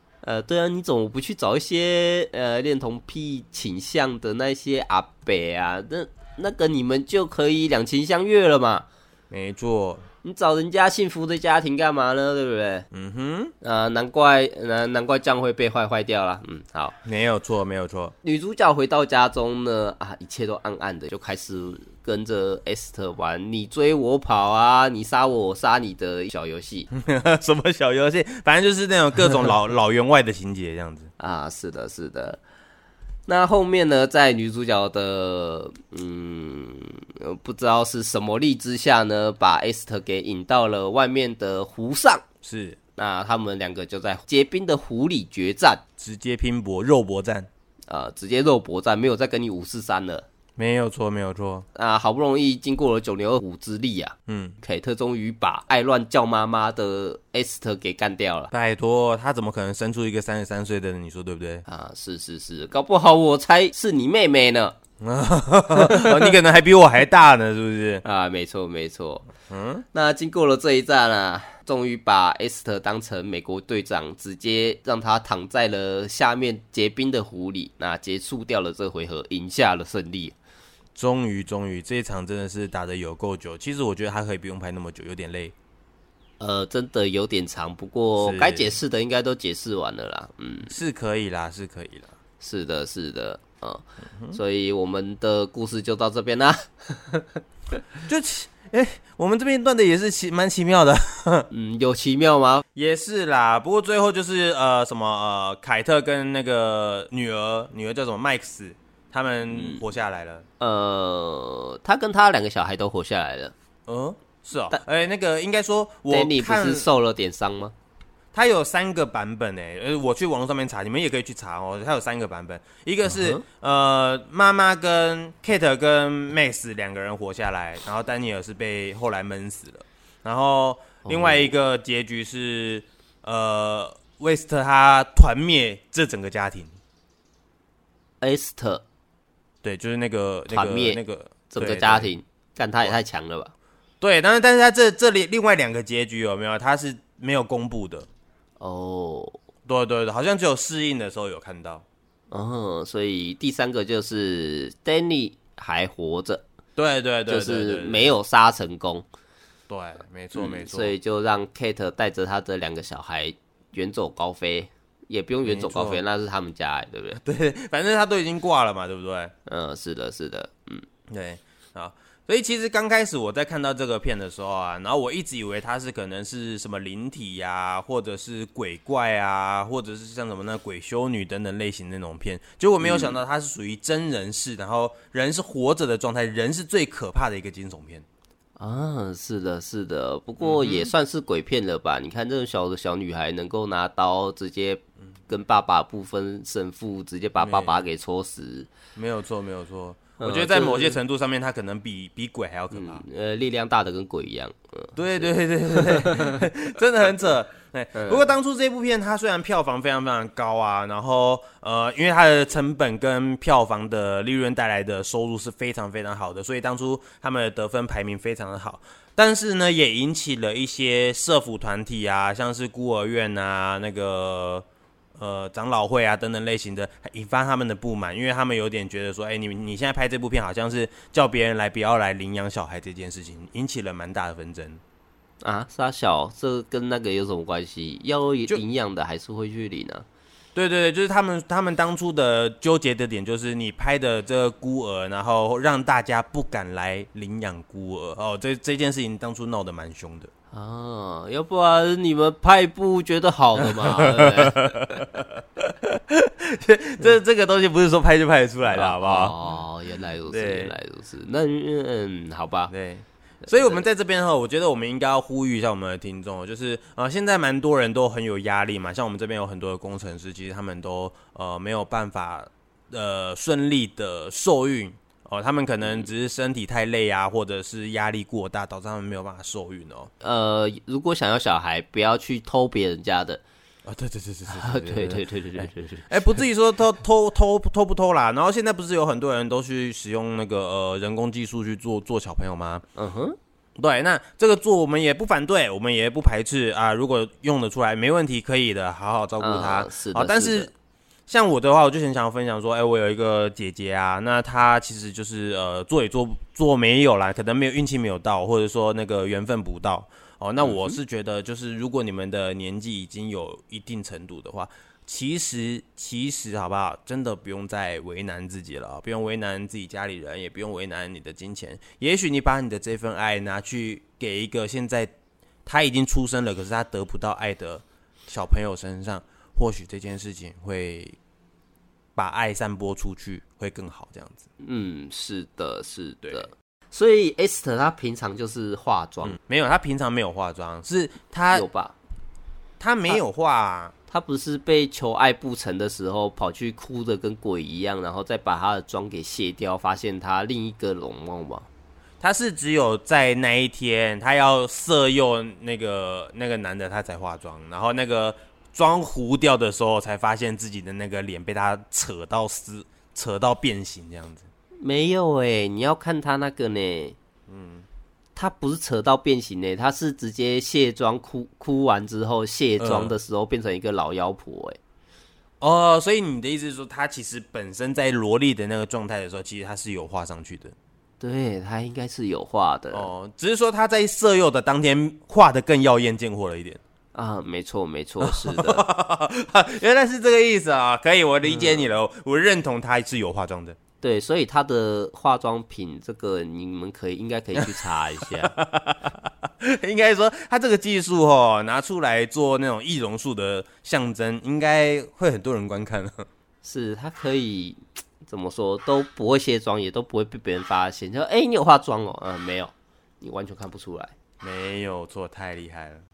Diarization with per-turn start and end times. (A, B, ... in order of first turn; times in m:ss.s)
0:00.2-0:08.9 A
0:09.3-0:10.0 B
0:10.2-0:12.9 A
0:12.9-0:13.5 B
0:13.6-0:17.0 A
0:17.0-0:18.1 B
0:18.2-0:26.9 A
0:26.9-0:31.1 B
0:31.2-0:32.4 A
0:33.3-0:42.2 A
0:42.4-0:42.8 B
0:43.0-0:45.8 A
0:46.0-0:47.5 B
0:47.9-0:50.2 A
0:50.6-0:51.7 B
0:51.7-0:58.5 A
0:54.3-0:54.6 B
0:58.5-1:01.6 B
1:01.6-1:04.7 A
1:05.0-1:08.0 B
1:05.7-1:06.3 A
1:08.0-1:09.3 A
1:09.5-1:09.8 B
1:09.9-1:20.4 A
1:20.9-1:25.5 B
1:26.4-1:30.7 A
1:28.2-1:28.7 B
1:30.7-1:32.1 B
1:32.4-1:37.4 A
1:38.0-1:41.5 B
1:41.5-1:42.6 A
1:42.7-1:50.4 B
1:49.5-1:49.8 A
1:50.6-1:53.5 A
1:53.9-1:56.9 B
1:56.1-1:57.7 A
1:58.3-2:16.8 B
2:03.0-2:03.4 A
2:11.0-2:11.5 A
2:18.2-2:18.8 A
2:19.6-2:22.1 B
2:20.5-2:23.5 A
2:24.0-2:28.1 B
2:28.6-2:29.4 A
2:29.7-2:31.8 B
2:32.3-2:36.4 A
2:36.8-2:38.1 B
2:37.3-2:39.0 A
2:39.7-2:40.9 B
2:40.3-2:47.2 A
2:45.4-2:46.0 B
2:47.2-2:49.3 B
2:49.4-2:50.8 A
2:51.1-3:08.0 B
3:02.8-3:03.2 A
3:08.6-3:18.7 A
3:10.4-3:10.9 B
3:17.4-3:17.8 B
3:19.0-3:23.0 B
3:20.2-3:21.0 A
3:22.7-3:26.4 A
3:24.9-3:44.6 B
3:27.9-3:28.3 A
3:45.2-3:54.8 B
3:55.4-4:00.0 A
4:00.5-4:10.3 B
4:10.5-4:14.8 A
4:13.6-4:19.3 B
4:18.7-4:22.7 A
4:20.3-4:20.7 B
4:22.7-4:40.1 B
4:23.4-4:23.8 A
4:40.2-4:43.4 A
4:43.8-4:52.8 B
4:44.5-4:46.2 A
4:52.9-4:53.4 A
4:53.8-5:00.7 B
4:59.4-5:00.7 A
5:01.3-5:25.1 B
5:10.6-5:11.0 A
5:25.6-5:31.2 B
5:32.2-5:34.5 B
5:34.6-5:39.4 A
5:39.2-5:41.6 B
5:41.5-5:42.0 A
5:42.8-5:43.9 B
5:44.1-5:51.7 A
5:52.2-6:04.5 B
6:04.8-6:07.2 A
6:07.5-6:07.9 B
6:08.4-6:14.8 A
6:12.8-6:13.1 B
6:15.6-6:20.7 B
6:21.2-6:23.1 A
6:22.9-6:26.8 B
6:27.1-6:28.8 A
6:28.2-6:33.8 B
6:31.4-6:31.9 A
6:34.0-6:38.5 A
6:37.6-6:46.3 B
6:46.6-6:54.1 A
6:54.4-6:56.0 B